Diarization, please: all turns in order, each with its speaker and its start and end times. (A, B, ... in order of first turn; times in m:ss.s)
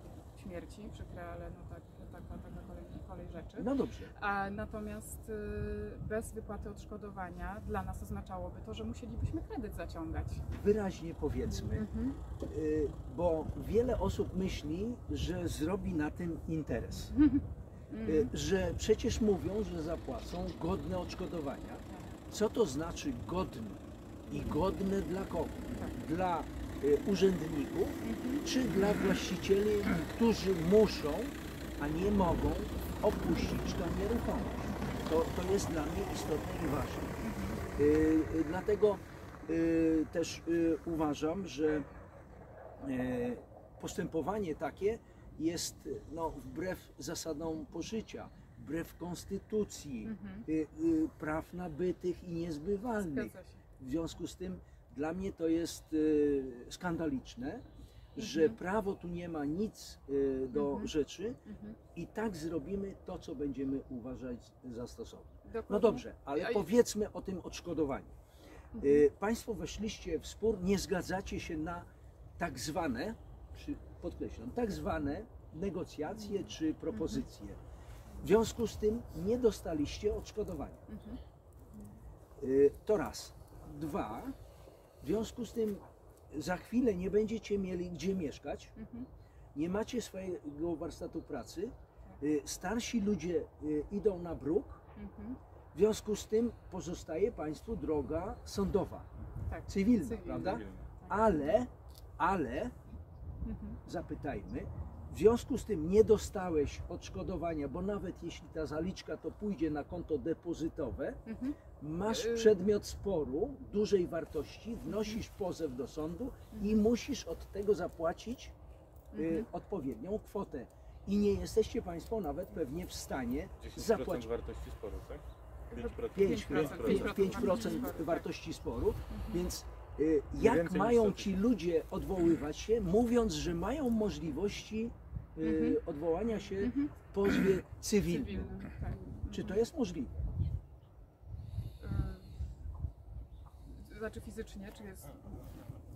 0:00.3-0:10.4 A
0:03.6-0:04.1 B
0:10.5-0:11.9 B
0:11.7-0:12.2 A
0:12.4-0:17.1 B
0:17.1-0:18.3 A
0:18.0-0:37.2 B
0:21.9-0:22.1 A
0:28.0-0:28.4 A
0:37.2-0:37.6 A
0:37.8-0:41.9 B
0:42.8-0:57.6 B
0:50.0-0:50.4 A
0:53.0-0:53.6 A
0:58.2-1:01.4 B
0:58.2-0:58.6 A
1:00.5-1:00.9 A
1:01.4-1:01.8 A
1:01.9-1:08.1 B
1:05.4-1:06.7 A
1:08.7-1:09.0 A
1:08.8-1:17.6 B
1:16.9-1:17.2 A
1:18.2-1:20.9 B
1:20.9-1:21.2 A
1:22.4-1:24.3 B
1:25.0-1:28.7 B
1:28.8-1:29.1 A
1:29.5-1:34.8 B
1:35.0-1:35.4 A
1:35.7-1:39.1 B
1:39.5-1:41.5 A
1:39.7-1:42.7 B
1:40.4-1:40.8 C
1:43.4-1:43.8 A
1:43.8-1:51.2 B
1:51.3-1:52.5 A
1:51.8-1:58.5 B
1:54.9-1:55.2 A
1:59.1-1:59.5 A
1:59.1-2:04.3 B
2:03.6-2:07.6 C
2:05.7-2:08.3 A
2:06.1-2:18.6 B
2:09.1-2:09.4 A
2:10.4-2:11.4 C
2:15.4-2:15.8 A
2:16.4-2:16.9 A
2:18.0-2:19.6 A
2:19.3-2:20.2 B
2:21.8-2:22.3 A
2:23.6-2:25.5 A